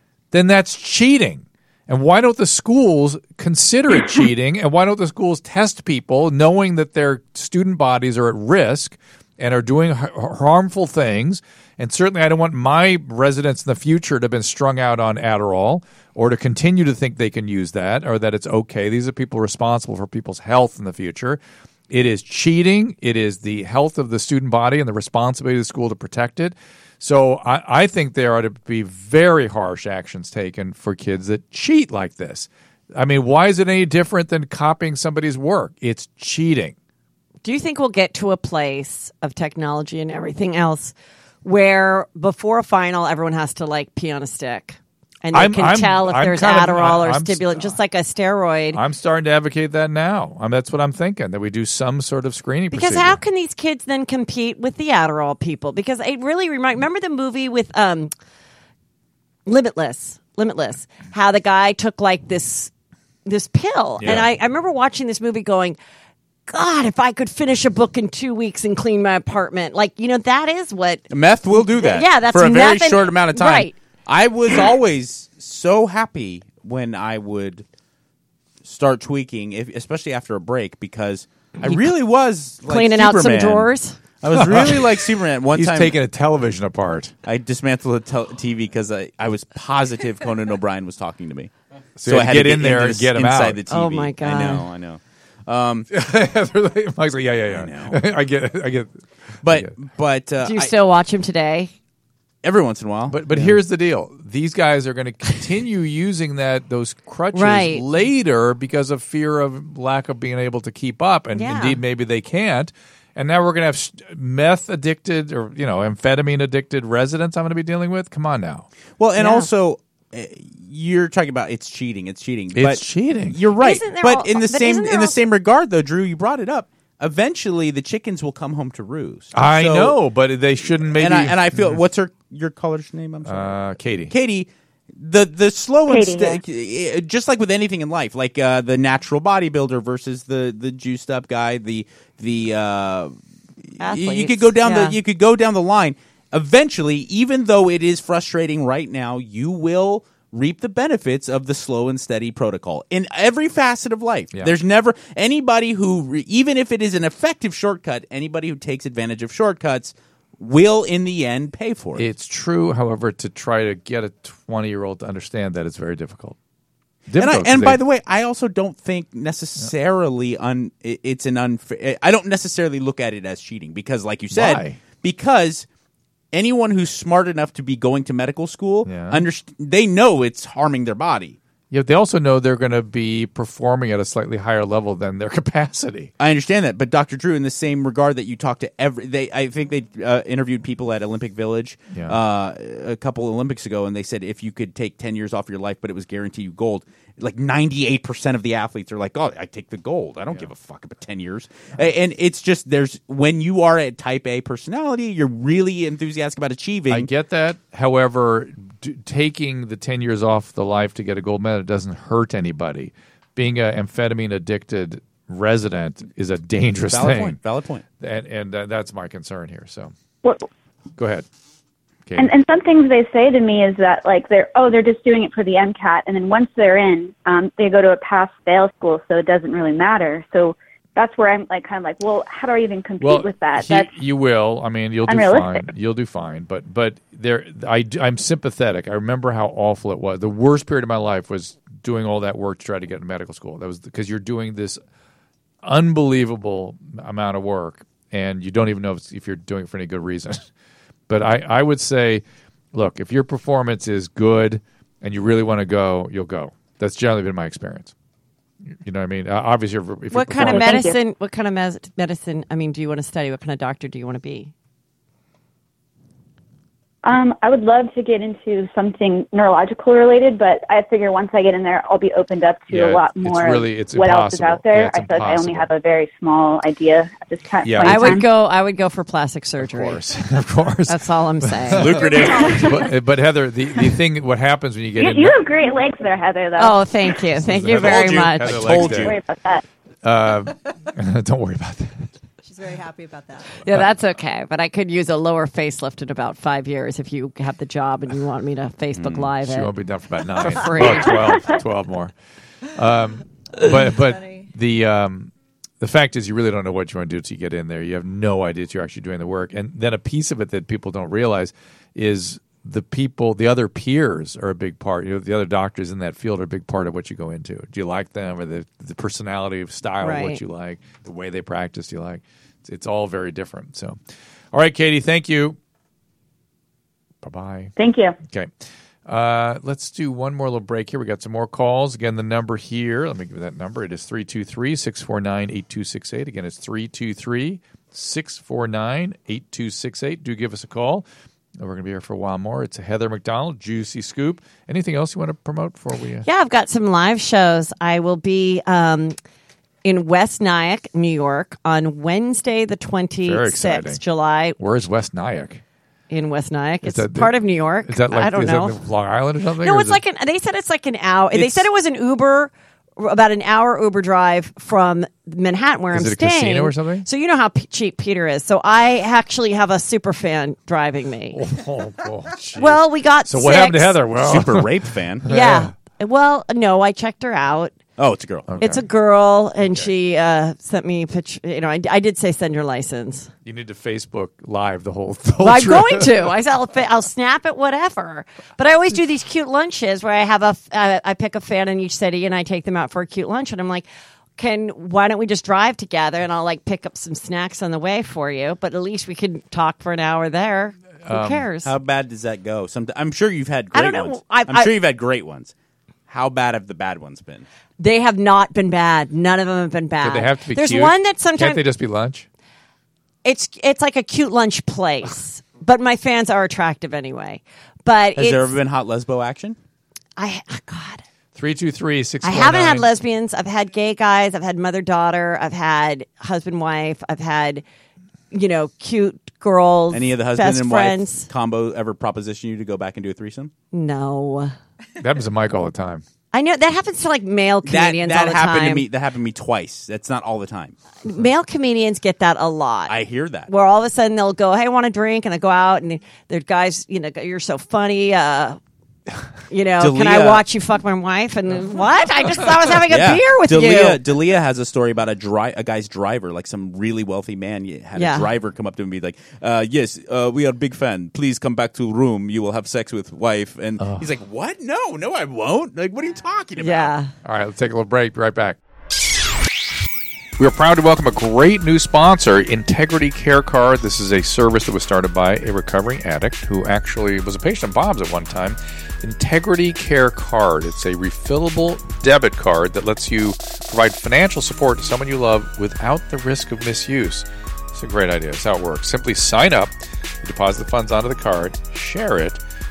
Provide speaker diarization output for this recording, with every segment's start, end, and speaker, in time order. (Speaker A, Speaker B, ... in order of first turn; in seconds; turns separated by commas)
Speaker A: 0.3-36.8, Speaker B: 37.4-48.8, Speaker A: 45.3-47.8, Speaker A: 48.7-53.2, Speaker B: 52.7-58.1, Speaker B: 59.5-62.7, Speaker B: 63.3-65.8, Speaker B: 66.5-73.8, Speaker C: 71.1-77.6, Speaker C: 78.6-83.7, Speaker B: 82.7-84.0, Speaker C: 84.2-86.0, Speaker A: 84.3-85.0, Speaker A: 85.5-87.2, Speaker C: 87.2-91.5, Speaker A: 92.0-93.6, Speaker C: 92.0-95.9, Speaker B: 93.7-94.7, Speaker A: 95.9-99.7, Speaker C: 97.5-98.0, Speaker C: 99.4-100.7, Speaker B: 100.4-101.7, Speaker C: 102.4-103.6, Speaker A: 103.1-118.7, Speaker B: 107.3-107.8, Speaker B: 111.3-111.8, Speaker C: 119.0-130.0, Speaker B: 119.2-119.5, Speaker A: 122.6-123.4, Speaker B: 123.6-125.2, Speaker A: 129.3-131.8, Speaker C: 130.9-143.1, Speaker A: 133.3-134.1, Speaker D: 135.9-136.4, Speaker B: 143.8-145.0, Speaker C: 143.8-162.1, Speaker A: 162.0-166.4, Speaker A: 167.1-167.8, Speaker C: 167.2-175.7, Speaker A: 174.3-174.8, Speaker C: 176.3-181.4, Speaker A: 178.9-179.2, Speaker A: 181.7-186.1, Speaker C: 186.2-207.1, Speaker A: 206.9-217.4, Speaker C: 216.9-217.8, Speaker A: 218.0-219.9, Speaker A: 221.0-221.3, Speaker D: 222.2-233.9, Speaker A: 233.0-244.8, Speaker D: 235.1-235.7, Speaker A: 245.6-250.5, Speaker A: 251.1-257.9, Speaker A: 258.8-260.9, Speaker B: 260.1-264.5, Speaker D: 260.4-261.0, Speaker D: 267.0-278.3, Speaker A: 272.7-275.7, Speaker A: 277.6-278.2, Speaker B: 277.8-280.0, Speaker A: 279.6-285.4, Speaker B: 280.9-281.9, Speaker C: 281.7-282.8, Speaker E: 282.1-282.7, Speaker D: 282.5-282.8, Speaker D: 285.0-286.8, Speaker B: 286.6-288.9, Speaker A: 287.4-289.2, Speaker C: 287.7-289.2, Speaker D: 288.9-289.6, Speaker A: 290.0-292.1, Speaker E: 292.4-293.6, Speaker B: 293.6-299.7, Speaker C: 299.0-299.3, Speaker A: 299.4-302.1, Speaker B: 300.4-301.4, Speaker A: 302.8-324.0, Speaker E: 303.9-304.5, Speaker B: 320.0-320.4, Speaker A: 324.5-325.6, Speaker A: 327.2-327.7, Speaker D: 327.8-328.2, Speaker A: 329.1-341.1, Speaker A: 341.6-346.3, Speaker B: 346.2-349.2, Speaker B: 349.8-354.6, Speaker A: 353.2-354.0, Speaker A: 354.6-355.6, Speaker B: 356.1-358.8, Speaker A: 356.8-360.0, Speaker B: 359.6-371.4, Speaker C: 361.3-361.6, Speaker A: 365.9-367.1, Speaker A: 371.3-374.7, Speaker B: 372.6-374.0, Speaker C: 374.2-375.3, Speaker A: 375.2-375.7, Speaker B: 375.3-377.7, Speaker C: 378.0-378.5, Speaker A: 378.5-378.9, Speaker B: 378.6-383.3, Speaker A: 379.6-379.9, Speaker A: 383.4-386.1, Speaker B: 385.4-393.9, Speaker B: 394.4-401.7, Speaker A: 401.1-401.4, Speaker C: 401.6-405.5, Speaker B: 403.7-404.7, Speaker C: 406.1-407.4, Speaker B: 407.8-411.6, Speaker A: 410.0-412.3, Speaker B: 413.2-418.5, Speaker C: 418.2-419.6, Speaker B: 420.2-421.0, Speaker A: 421.4-422.9, Speaker B: 422.2-427.6, Speaker B: 428.3-431.3, Speaker C: 429.9-433.5, Speaker B: 433.7-434.5, Speaker A: 435.0-436.0, Speaker B: 436.3-438.9, Speaker C: 437.6-440.7, Speaker B: 441.0-442.9, Speaker C: 442.9-443.5, Speaker B: 443.5-448.6, Speaker B: 449.5-454.0, Speaker C: 449.8-450.4, Speaker C: 452.9-466.9, Speaker B: 457.9-458.3, Speaker B: 466.6-467.1, Speaker A: 467.2-468.6, Speaker A: 470.4-492.4